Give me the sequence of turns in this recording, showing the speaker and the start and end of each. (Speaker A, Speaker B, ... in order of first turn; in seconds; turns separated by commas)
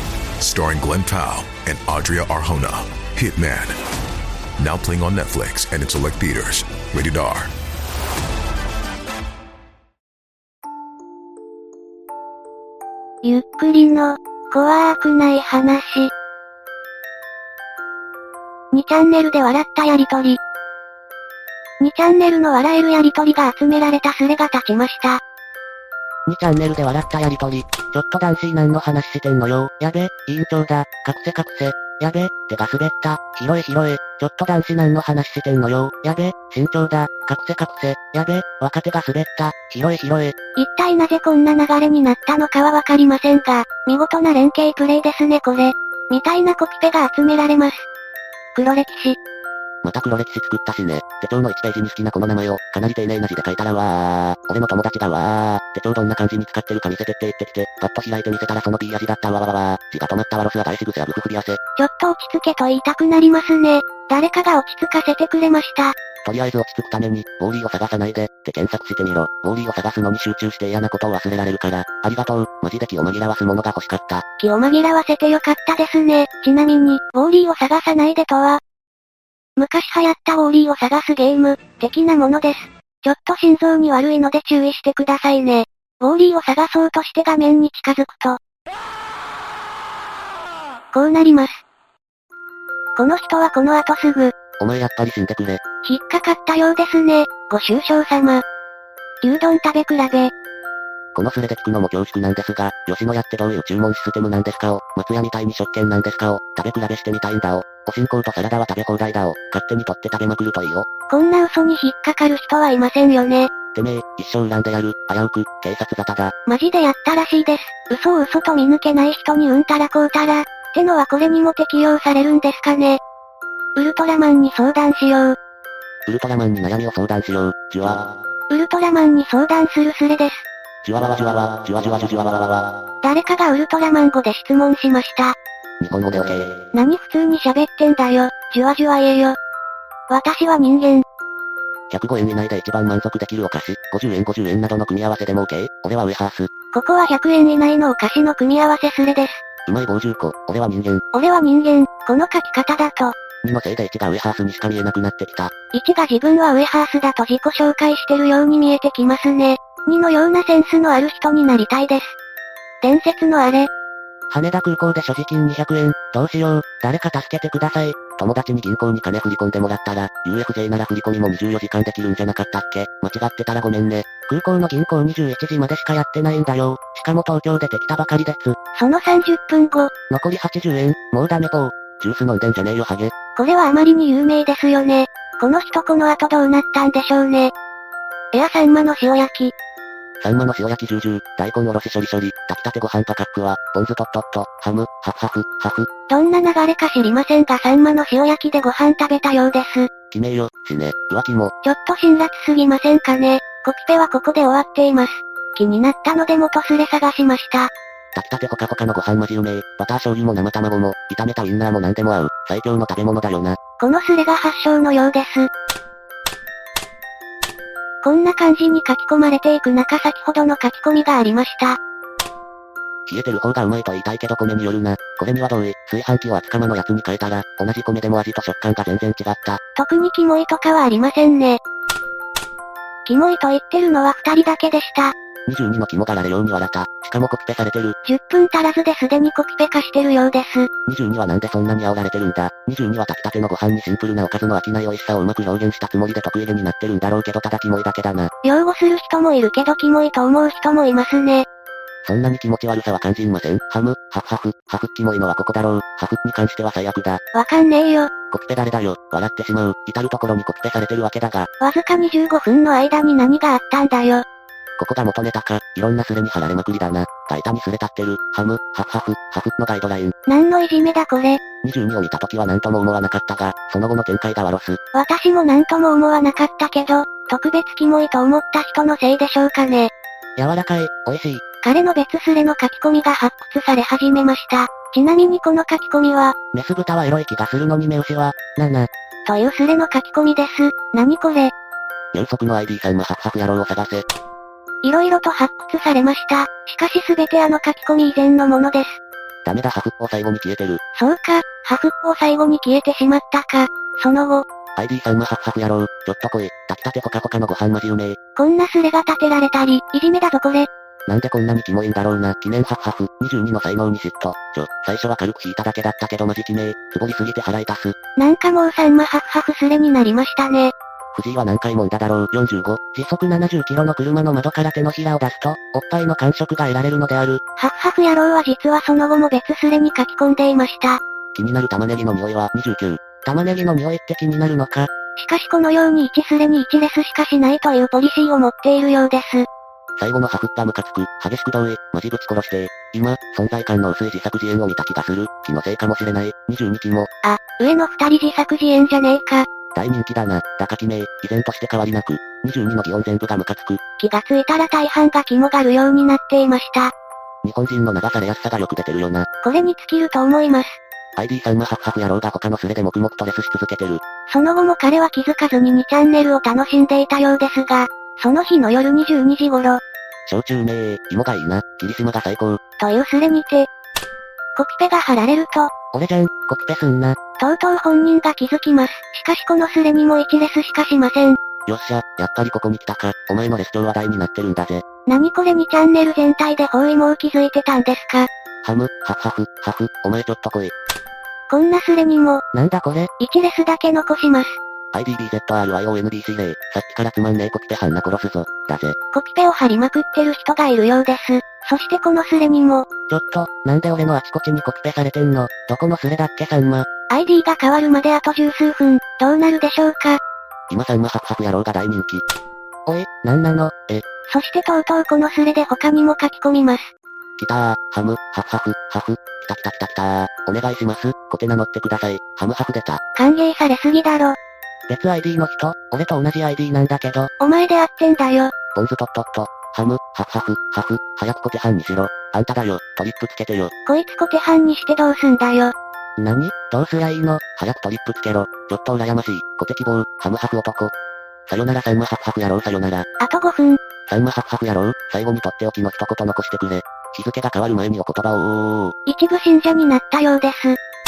Speaker A: 0.4-3.8, Speaker A: 4.6-7.5, Speaker B: 13.2-16.1, Speaker B: 18.7-20.4, Speaker B: 21.8-25.2, Speaker C: 26.2-40.4, Speaker B: 40.5-47.9, Speaker B: 48.5-49.2, Speaker C: 49.8-61.6, Speaker B: 61.8-66.0, Speaker C: 66.2-74.2, Speaker B: 74.4-78.6, Speaker B: 79.5-88.4, Speaker B: 90.9-91.6, Speaker B: 92.9-94.3, Speaker C: 94.6-95.6, Speaker B: 95.8-98.4, Speaker B: 99.2-100.3, Speaker C: 101.1-110.9, Speaker B: 111.1-113.5, Speaker C: 113.7-116.3, Speaker B: 116.5-123.0, Speaker B: 123.7-125.4, Speaker C: 126.0-128.1, Speaker B: 128.5-130.4, Speaker C: 130.8-132.8, Speaker B: 133.0-135.3, Speaker C: 135.8-136.5, Speaker B: 136.7-139.4, Speaker B: 140.1-141.0, Speaker C: 141.9-146.5, Speaker B: 146.7-149.4, Speaker C: 149.7-151.0, Speaker B: 151.1-153.2, Speaker C: 153.4-155.5, Speaker B: 155.7-162.2, Speaker B: 162.8-163.7, Speaker C: 164.3-178.6, Speaker B: 178.7-179.9, Speaker C: 180.1-183.1, Speaker B: 183.3-187.5, Speaker B: 188.3-189.5, Speaker C: 190.2-195.9, Speaker B: 196.1-199.9, Speaker C: 200.1-201.5, Speaker B: 201.6-207.7, Speaker C: 208.1-213.6, Speaker B: 213.8-215.5, Speaker B: 218.0-221.8, Speaker C: 223.1-229.6, Speaker B: 229.7-231.6, Speaker B: 233.0-235.1, Speaker C: 235.4-237.9, Speaker B: 238.0-240.7, Speaker C: 240.8-248.3, Speaker B: 248.4-251.5, Speaker C: 252.0-257.2, Speaker B: 257.3-258.1, Speaker C: 258.3-261.5, Speaker B: 261.6-264.2, Speaker C: 264.8-270.1, Speaker B: 270.2-271.4, Speaker C: 271.6-274.8, Speaker B: 274.9-279.9, Speaker C: 280.4-281.4, Speaker B: 281.6-286.4, Speaker C: 286.5-288.9, Speaker B: 289.2-291.5, Speaker C: 292.1-294.0, Speaker B: 294.8-299.0, Speaker C: 299.4-300.8, Speaker B: 300.9-304.4, Speaker C: 304.8-308.2, Speaker B: 308.3-310.7, Speaker C: 311.1-317.9, Speaker B: 318.1-320.7, Speaker C: 321.1-327.4, Speaker B: 327.6-331.0, Speaker C: 331.3-334.9, Speaker B: 335.1-339.5, Speaker C: 340.0-347.1, Speaker B: 347.2-349.5, Speaker C: 349.7-353.8, Speaker B: 354.0-356.9, Speaker C: 357.4-359.3, Speaker B: 359.4-360.8, Speaker C: 361.1-364.0, Speaker B: 364.3-369.8, Speaker C: 370.2-372.6, Speaker B: 372.8-373.7, Speaker B: 374.6-375.7, Speaker C: 375.9-377.2, Speaker B: 377.4-381.4, Speaker C: 381.6-384.8, Speaker B: 385.1-388.3, Speaker C: 388.6-390.7, Speaker B: 391.5-392.4, Speaker C: 392.5-393.1, Speaker B: 393.2-394.6, Speaker C: 394.9-398.9, Speaker B: 399.1-402.9, Speaker C: 403.1-406.9, Speaker B: 407.1-410.2, Speaker C: 410.7-412.2, Speaker C: 412.9-414.0, Speaker B: 414.3-416.9, Speaker C: 417.4-423.0, Speaker B: 423.1-424.4, Speaker C: 424.9-427.3, Speaker B: 427.4-428.5, Speaker C: 428.7-433.7, Speaker B: 433.8-435.7, Speaker C: 436.2-440.9, Speaker C: 441.5-443.1, Speaker B: 443.2-443.8, Speaker C: 444.1-448.9, Speaker B: 449.1-450.8